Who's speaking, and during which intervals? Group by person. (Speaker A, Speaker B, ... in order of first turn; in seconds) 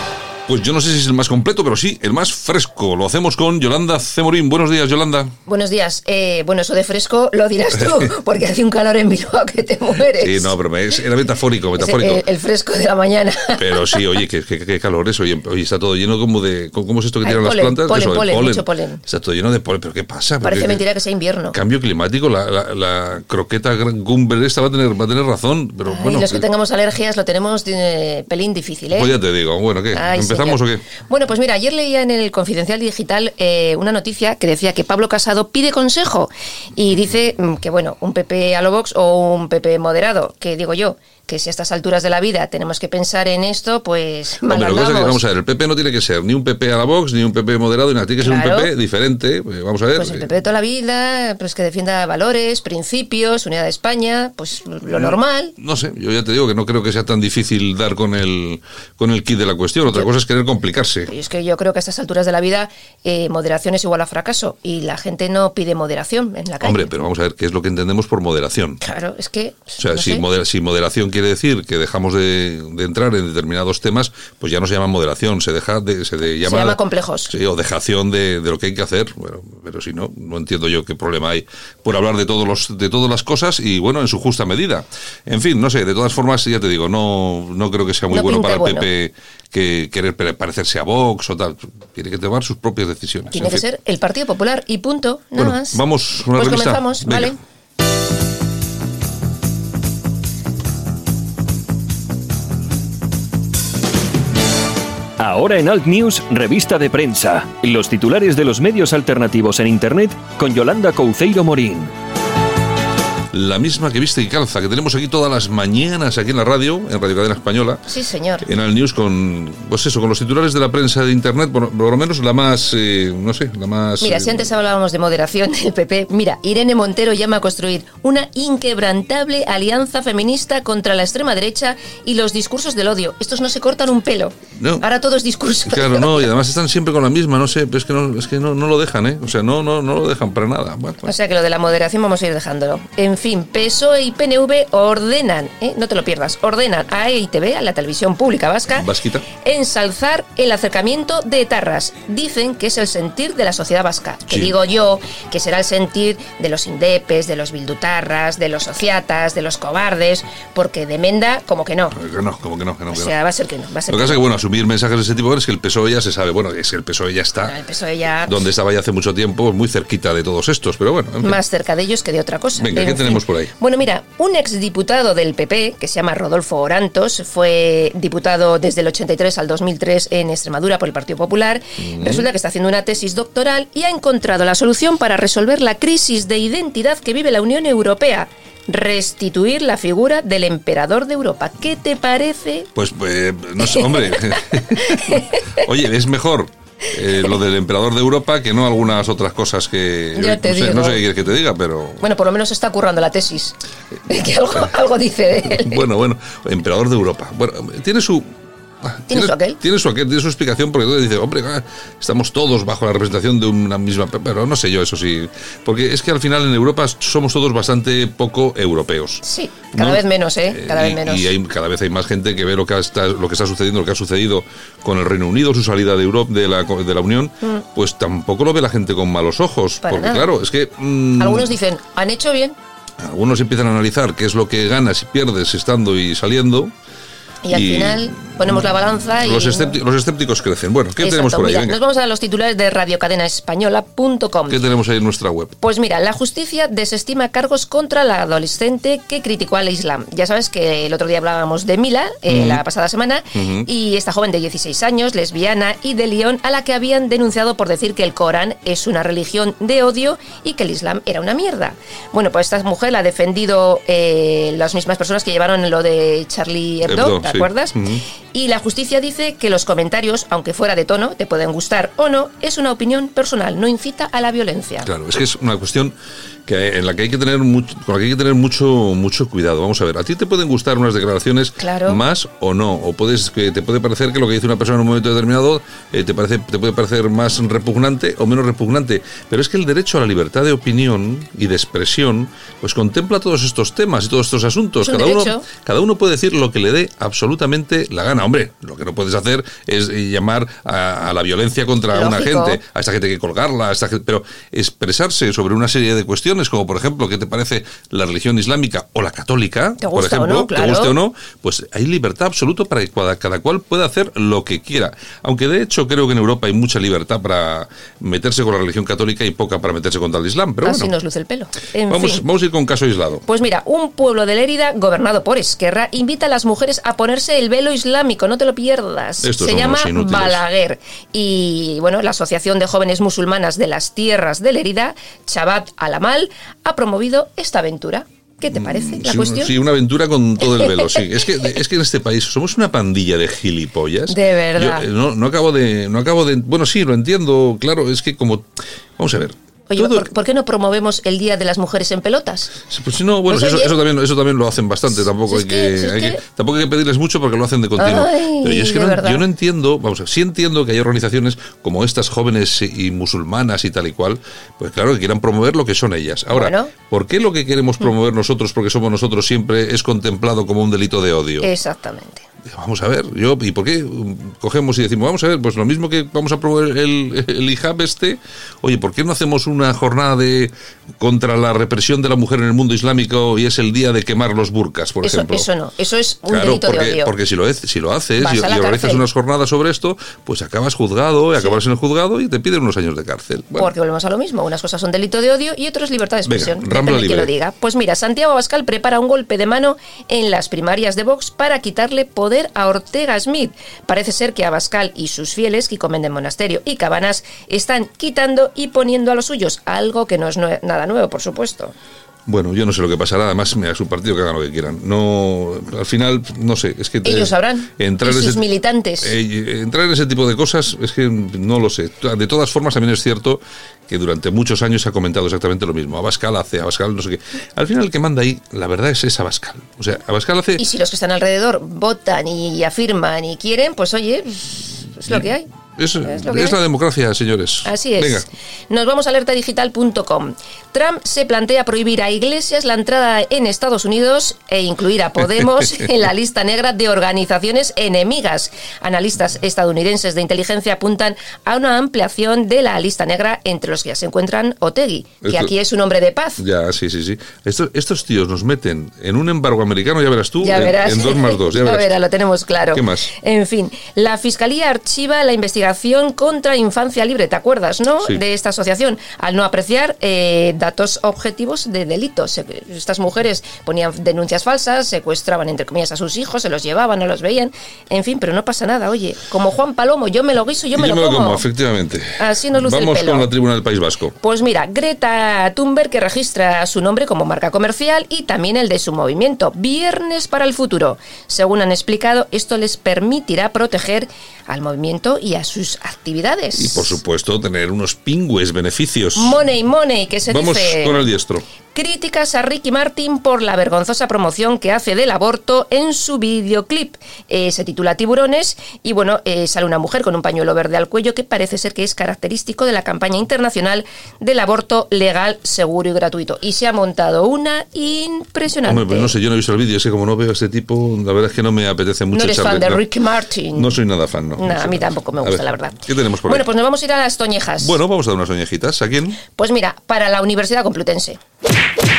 Speaker A: 0.5-5.3, 10.2-12.2, 13.6-20.8, 21.5-26.4, 28.9-30.9, 44.4-50.3, 54.9-61.1, 66.6-68.8, 69.8-93.6, 95.4-97.3, 113.3-117.8, 118.4-124.5, 134.6-134.8, 135.7-141.1, 148.7-149.3, 161.9-163.1, 163.9-167.6, 168.2-171.4, 172.6-173.5, 181.8-182.3, 192.8-202.1, 205.5-208.3, 208.8-219.2, 219.7-231.6, 233.0-236.7, 237.5-241.8, 244.5-245.6, 252.3-252.6, 253.3-253.7, 266.8-268.0, 274.8-275.9, 276.5-320.9, 321.9-323.2, 329.2-330.4, 338.5-348.5, 349.0-350.1, 352.7-371.5, 372.5-385.5, 386.3-393.7, 396.3-397.3, 412.3-418.5, 419.0-430.6, 435.1-438.3, 455.2-455.5, 456.4-462.0, 462.7-463.1, 480.7-484.2, 496.6-499.4, 500.3-501.4, 518.6-522.9, 523.5-526.5, 527.6-529.2
Speaker B: 5.5-10.5, 11.8-14.1, 17.2-19.0, 20.4-21.6, 25.9-29.2, 29.9-45.2, 48.2-48.7, 50.0-55.6, 61.1-66.9, 68.8-70.3, 76.4-77.3, 88.1-88.9, 93.3-97.4, 117.9-118.5, 124.0-136.3, 141.0-148.9, 149.4-162.0, 162.9-164.3, 167.4-168.4, 171.2-192.7, 193.6-195.6, 200.1-201.0, 202.0-203.6, 204.1-205.9, 209.1-209.6, 219.2-221.3, 229.8-230.3, 231.2-232.6, 237.4-239.8, 241.0-244.7, 245.6-267.8, 268.3-274.9, 281.6-282.0, 294.8-295.5, 301.9-302.6, 309.8-311.0, 320.6-322.2, 323.3-339.6, 340.5-341.1, 344.1-344.9, 349.7-352.6, 353.3-353.8, 355.0-356.2, 357.8-359.2, 366.3-366.7, 371.4-372.2, 385.0-387.1, 388.2-389.1, 393.6-411.7, 417.0-419.2, 430.6-435.5, 436.0-436.6, 437.6-456.4, 460.4-481.4, 482.2-483.3, 484.2-497.0, 499.1-501.1, 501.7-519.2, 522.1-523.8, 524.4-527.8, 529.3-531.2
Speaker C: 105.2-111.9